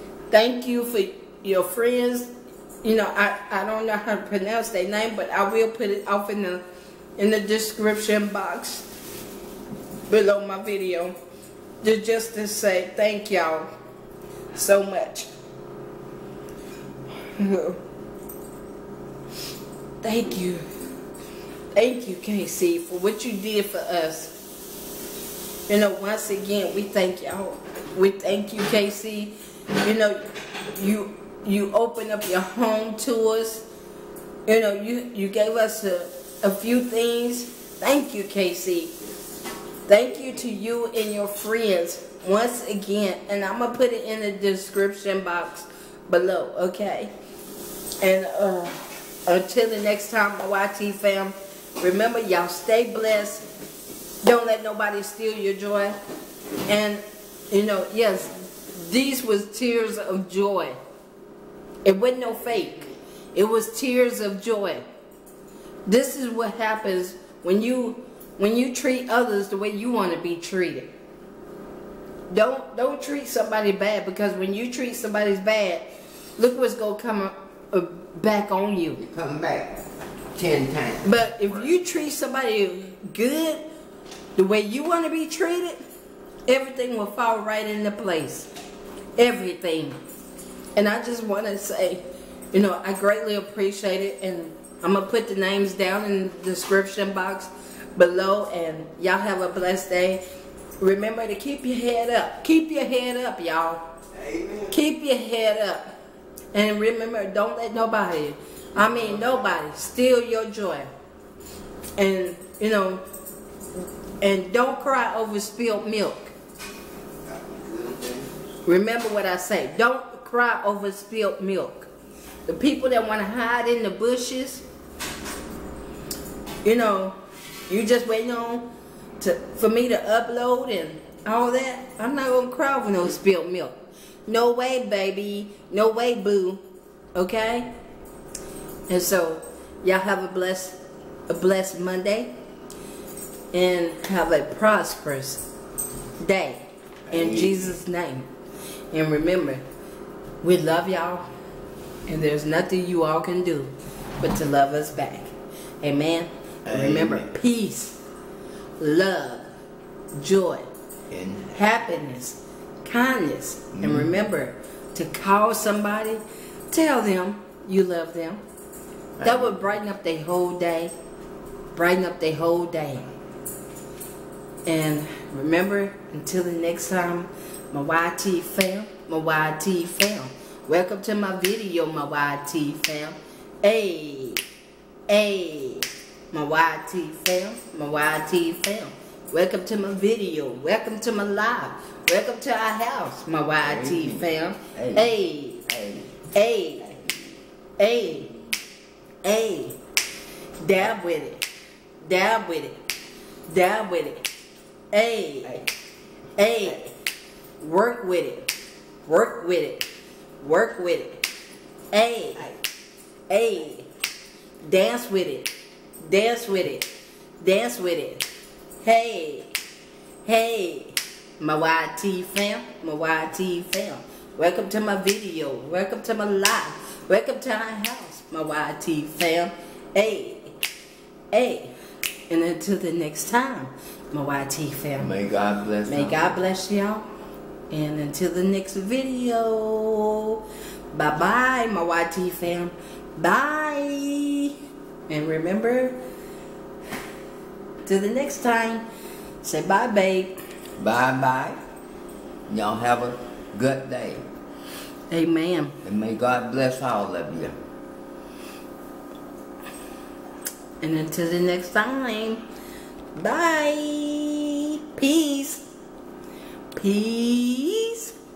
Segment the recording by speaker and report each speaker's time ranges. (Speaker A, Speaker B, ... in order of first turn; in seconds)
Speaker A: 0.3-2.3, 2.8-6.6, 7.2-8.9, 10.1-11.2, 11.8-13.7, 14.5-15.3, 17.3-17.8, 20.0-20.6, 21.8-24.3, 25.7-33.6, 34.5-39.0, 39.9-47.1, 48.0-53.5, 54.2-56.0, 56.7-60.8, 61.8-64.8, 65.9-70.9, 72.3-79.0, 81.0-83.6, 84.4-85.8, 86.5-88.5, 89.2-90.0, 90.8-100.2, 100.8-103.8, 104.7-105.9, 106.5-110.9, 112.0-113.0, 114.2-116.3, 118.7-121.9, 122.5-124.6, 126.6-127.2, 127.7-128.7, 129.2-133.8, 134.3-136.6, 137.2-137.7, 138.9-140.8, 141.3-142.3, 143.5-145.4, 146.2-148.3, 148.9-149.6, 150.4-151.3, 152.1-158.0, 158.8-159.5, 160.2-160.7, 161.6-168.4, 169.2-170.9, 171.7-173.1, 174.7-184.4, 185.1-195.6, 196.3-197.0, 197.8-198.3, 199.2-199.8, 200.6-201.4, 202.0-202.8, 203.5-204.3, 204.9-205.6, 206.4-206.9, 207.6-208.5, 209.1-209.9, 210.4-211.3, 211.9-212.5, 213.3-213.9, 214.6-218.3, 218.8-219.5, 220.2-230.6, 231.3-231.7, 232.3-235.1, 235.9-237.1, 237.7-240.4, 240.9-244.6, 245.1-246.0, 247.8-248.8, 249.4-250.4, 255.1-255.8, 260.8-262.4, 263.1-265.6, 266.8-268.1
Speaker B: 79.0-81.7, 104.1-104.8, 108.8-109.5, 117.2-118.5, 147.1-147.8, 156.7-157.3, 161.1-161.6, 163.7-164.2, 169.2-169.7, 193.6-196.2, 235.0-236.3, 250.8-251.6, 252.5-254.3, 255.8-257.6